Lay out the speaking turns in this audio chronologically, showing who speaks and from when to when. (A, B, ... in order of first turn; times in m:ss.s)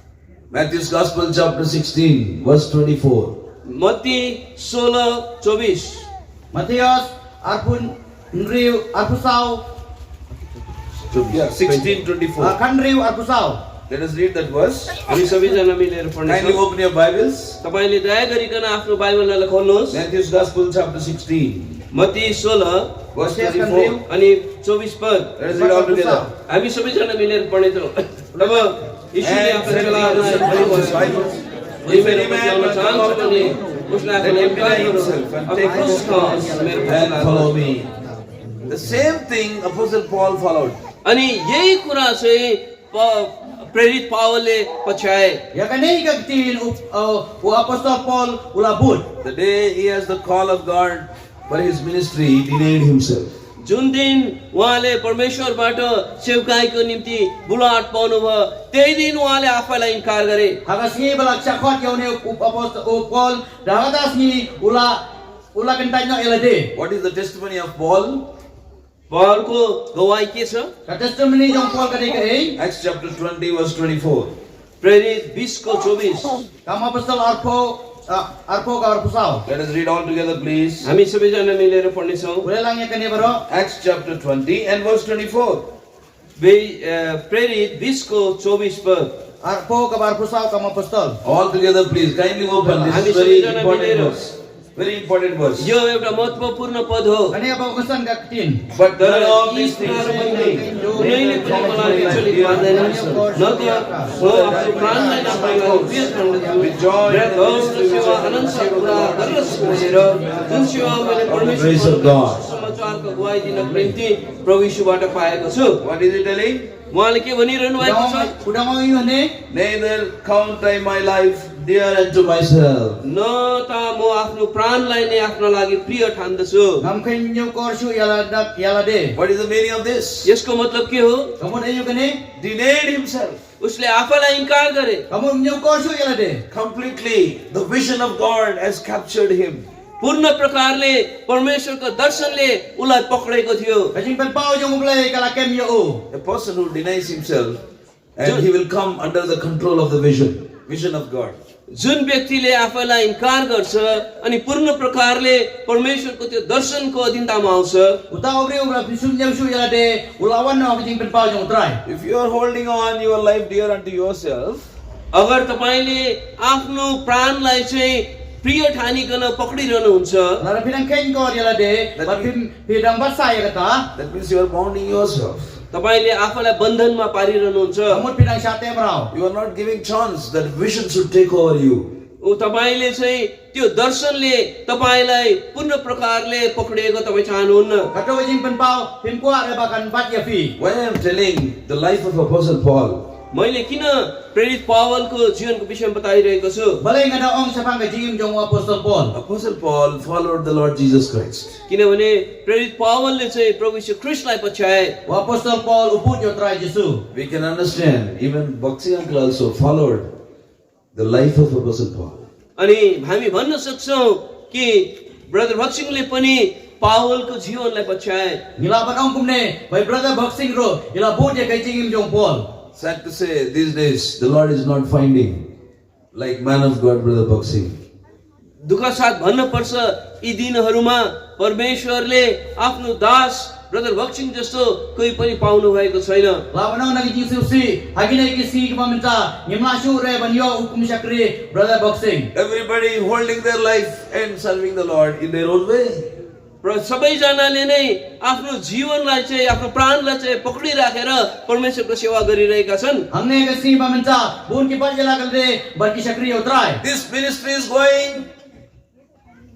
0:00.5-0:03.4 A
0:03.6-0:06.1 B
0:06.5-0:09.6 C
0:11.1-0:12.6 A
0:12.4-0:13.6 C
0:13.9-0:15.0 A
0:15.0-0:16.6 B
0:16.2-0:17.6 A
0:17.6-0:20.0 B
0:19.9-0:21.8 A
0:21.9-0:23.0 B
0:23.1-0:24.0 A
0:23.2-0:24.0 C
0:24.0-0:25.3 B
0:25.4-0:26.3 A
0:25.5-0:26.3 C
0:26.5-0:31.2 B
0:28.4-0:28.7 C
0:29.2-0:33.6 A
0:31.8-0:37.5 B
0:34.2-0:37.9 A
0:35.7-0:36.8 C
0:38.7-0:40.8 A
0:41.0-0:45.4 B
0:45.5-0:49.1 C
0:49.2-0:53.3 A
0:53.6-1:00.6 B
1:00.6-1:05.0 C
1:05.5-1:06.7 C
1:06.7-1:08.3 A
1:09.1-1:10.7 B
1:10.9-1:12.6 C
1:12.6-1:14.4 A
1:14.8-1:16.4 B
1:16.6-1:19.4 C
1:19.4-1:20.9 A
1:20.8-1:22.5 B
1:22.4-1:23.4 C
1:23.5-1:25.7 A
1:26.4-1:29.1 B
1:29.4-1:31.2 C
1:31.2-1:35.7 A
1:32.9-1:34.2 B
1:35.6-1:37.4 B
1:37.3-1:38.6 C
1:38.7-1:40.7 A
1:39.0-1:55.8 B
1:39.9-1:45.6 C
1:41.3-1:43.3 A
1:44.1-1:50.3 A
1:50.3-1:51.2 C
1:51.2-1:52.4 A
1:55.8-1:56.7 A
1:56.9-1:58.3 B
1:57.8-1:59.4 C
1:59.5-2:03.0 A
2:03.0-2:06.8 B
2:06.8-2:09.2 C
2:09.1-2:10.3 A
2:10.2-2:11.3 B
2:11.4-2:12.2 C
2:12.4-2:13.4 A
2:13.6-2:15.0 B
2:15.1-2:16.4 C
2:16.5-2:19.7 A
2:20.0-2:23.9 B
2:23.9-2:26.0 C
2:26.1-2:27.6 A
2:28.2-2:31.4 A
2:31.7-2:38.0 B
2:38.1-2:41.8 C
2:41.8-2:44.7 A
2:45.1-2:50.4 B
2:50.4-2:53.9 C
2:52.0-2:52.3 A
2:54.0-2:55.6 A
2:55.7-2:58.0 B
2:57.9-2:59.1 C
2:59.1-3:01.9 A
3:02.2-3:07.9 B
3:07.9-3:10.6 C
3:10.6-3:13.1 A
3:13.3-3:16.8 B
3:16.8-3:19.1 C
3:19.1-3:21.6 A
3:21.7-3:25.0 B
3:25.0-3:27.0 C
3:27.1-3:30.1 A
3:30.9-3:32.2 A
3:32.6-3:38.4 B
3:38.6-3:42.5 C
3:42.8-3:45.5 A
3:46.1-3:47.8 A
3:48.6-3:56.4 B
3:56.5-4:02.3 C
4:02.3-4:06.1 A
4:06.6-4:13.1 B
4:13.1-4:16.8 C
4:16.8-4:18.2 A